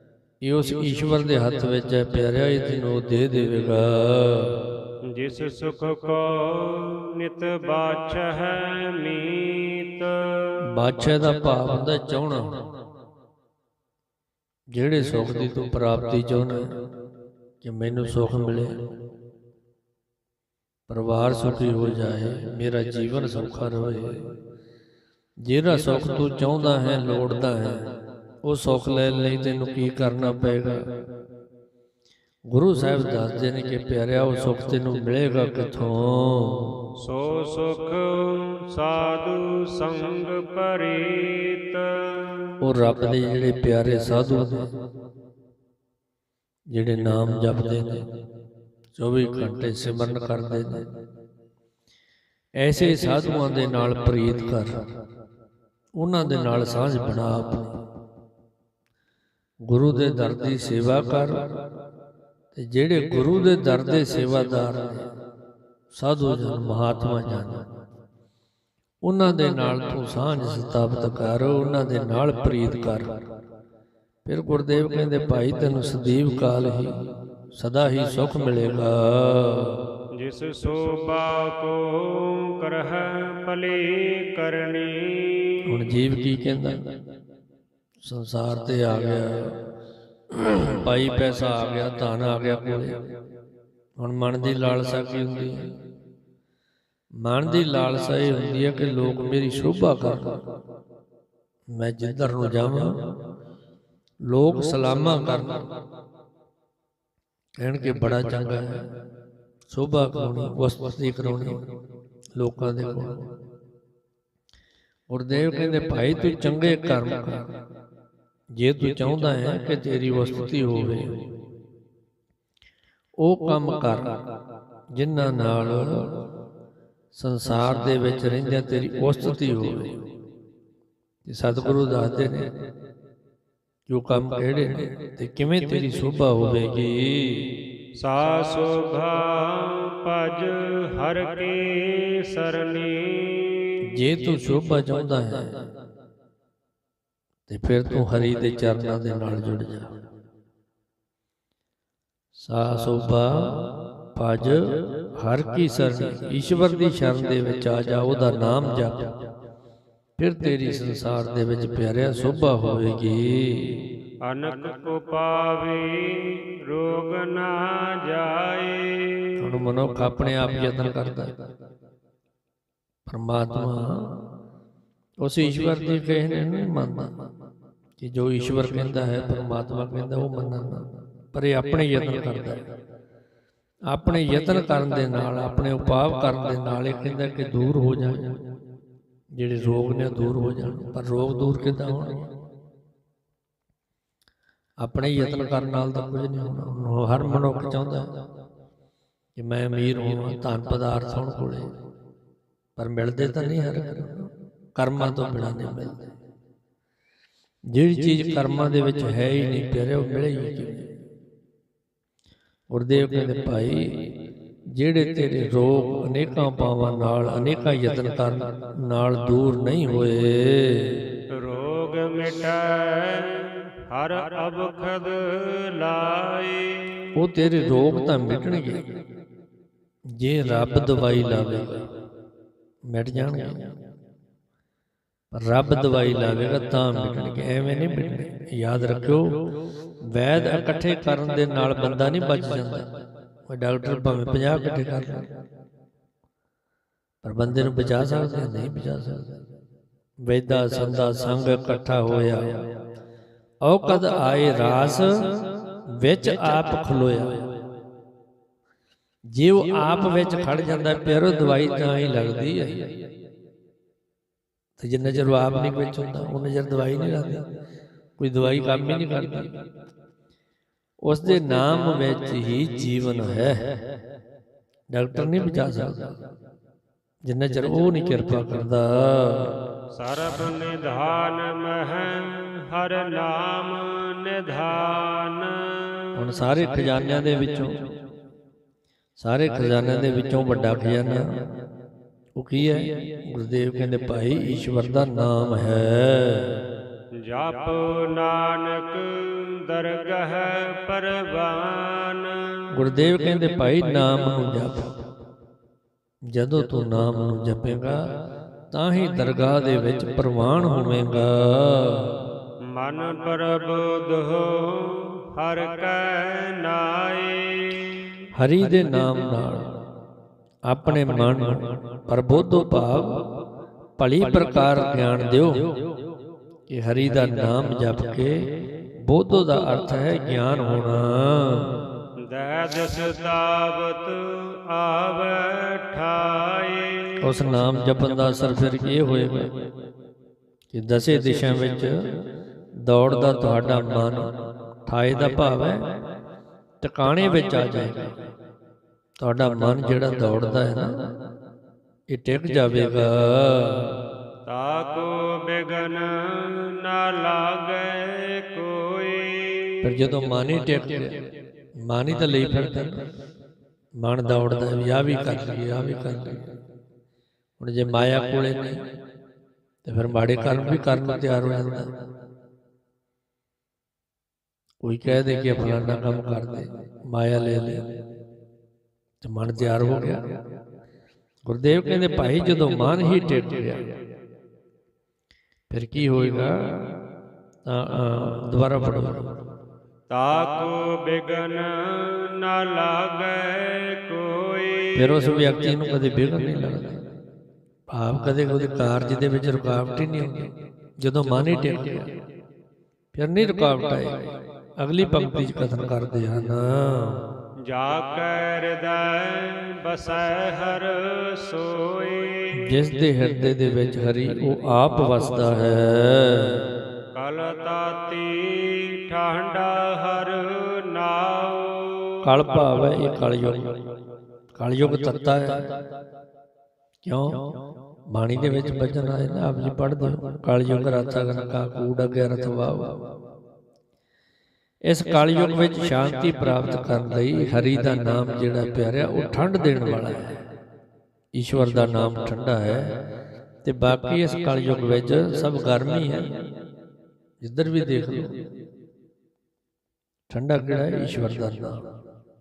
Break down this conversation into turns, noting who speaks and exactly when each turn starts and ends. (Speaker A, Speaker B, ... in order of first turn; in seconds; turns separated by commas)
Speaker A: 0.4-4.6, Speaker B: 5.0-10.6, Speaker A: 10.6-12.5, Speaker A: 14.7-16.6, Speaker A: 17.6-18.8, Speaker A: 20.9-24.2, Speaker A: 25.4-27.8, Speaker A: 28.4-30.8, Speaker A: 32.5-36.7, Speaker B: 37.0-42.5, Speaker A: 42.6-44.7, Speaker A: 46.7-48.0, Speaker A: 49.0-50.9, Speaker A: 52.6-54.8, Speaker A: 56.0-57.7, Speaker A: 59.7-61.4, Speaker A: 62.5-65.1, Speaker A: 65.9-67.6, Speaker A: 69.0-73.1, Speaker A: 74.2-76.9, Speaker A: 77.5-79.8, Speaker B: 80.1-85.6, Speaker A: 85.6-86.8, Speaker A: 88.0-89.5, Speaker A: 90.3-93.0, Speaker A: 94.0-95.6, Speaker A: 97.2-100.4, Speaker A: 101.7-102.9, Speaker A: 104.3-105.6, Speaker A: 107.6-108.8, Speaker A: 109.7-111.6, Speaker A: 112.4-113.2, Speaker A: 115.1-117.5, Speaker A: 118.6-121.1, Speaker A: 123.2-124.1, Speaker A: 124.9-126.1, Speaker A: 127.1-130.0, Speaker A: 131.3-132.5, Speaker A: 133.9-137.5, Speaker B: 138.0-143.8, Speaker A: 143.8-145.6, Speaker A: 147.5-149.9, Speaker A: 152.3-159.1, Speaker A: 160.2-163.8, Speaker B: 164.2-169.4, Speaker A: 169.4-171.3, Speaker A: 173.1-174.1, Speaker A: 175.2-177.1, Speaker A: 178.0-182.6, Speaker A: 183.9-188.3, Speaker A: 189.3-192.3, Speaker A: 194.8-198.1, Speaker A: 199.4-201.7, Speaker A: 202.8-206.1, Speaker A: 207.7-210.9, Speaker A: 212.7-214.1, Speaker A: 214.7-221.0, Speaker B: 221.3-227.1, Speaker A: 227.2-228.8, Speaker A: 230.2-231.8, Speaker A: 232.9-233.7, Speaker A: 235.3-239.3, Speaker A: 240.1-242.8, Speaker A: 243.5-245.3, Speaker A: 247.2-249.3, Speaker A: 250.2-252.5, Speaker A: 253.6-255.4, Speaker A: 256.0-257.4, Speaker A: 259.3-262.9, Speaker A: 264.8-267.4, Speaker A: 268.2-269.5, Speaker A: 271.0-273.6, Speaker A: 274.9-276.1, Speaker A: 277.2-279.5, Speaker B: 279.9-286.1, Speaker A: 286.1-287.8, Speaker A: 289.2-291.3, Speaker A: 292.4-296.5, Speaker B: 297.2-302.6, Speaker A: 302.7-304.9, Speaker A: 306.3-308.0, Speaker A: 308.7-312.1, Speaker B: 312.6-318.0, Speaker A: 318.3-319.7, Speaker A: 320.7-323.3, Speaker A: 324.0-325.8, Speaker A: 326.7-328.4, Speaker A: 329.0-331.7, Speaker B: 332.2-337.3, Speaker A: 337.2-339.5, Speaker A: 340.7-341.9, Speaker A: 342.8-344.3, Speaker A: 344.9-345.8, Speaker A: 346.8-348.1, Speaker A: 349.2-350.9, Speaker A: 352.1-353.9, Speaker B: 354.4-359.8, Speaker A: 359.8-361.2, Speaker A: 361.9-363.0, Speaker A: 364.0-366.4, Speaker A: 367.6-368.8, Speaker A: 369.9-371.9, Speaker A: 374.8-377.8, Speaker A: 379.2-380.2, Speaker A: 381.4-383.8, Speaker A: 385.7-386.9, Speaker A: 387.6-389.3, Speaker B: 390.1-395.2, Speaker A: 394.9-397.0, Speaker A: 397.9-402.1, Speaker A: 403.1-407.2, Speaker B: 407.6-412.6, Speaker A: 412.6-416.6, Speaker B: 417.1-422.2, Speaker A: 422.2-423.7, Speaker A: 424.5-425.6, Speaker A: 427.0-427.4, Speaker A: 428.1-433.0, Speaker A: 434.9-440.4, Speaker A: 441.4-442.9, Speaker A: 443.6-446.3, Speaker A: 447.4-448.3, Speaker A: 450.3-451.8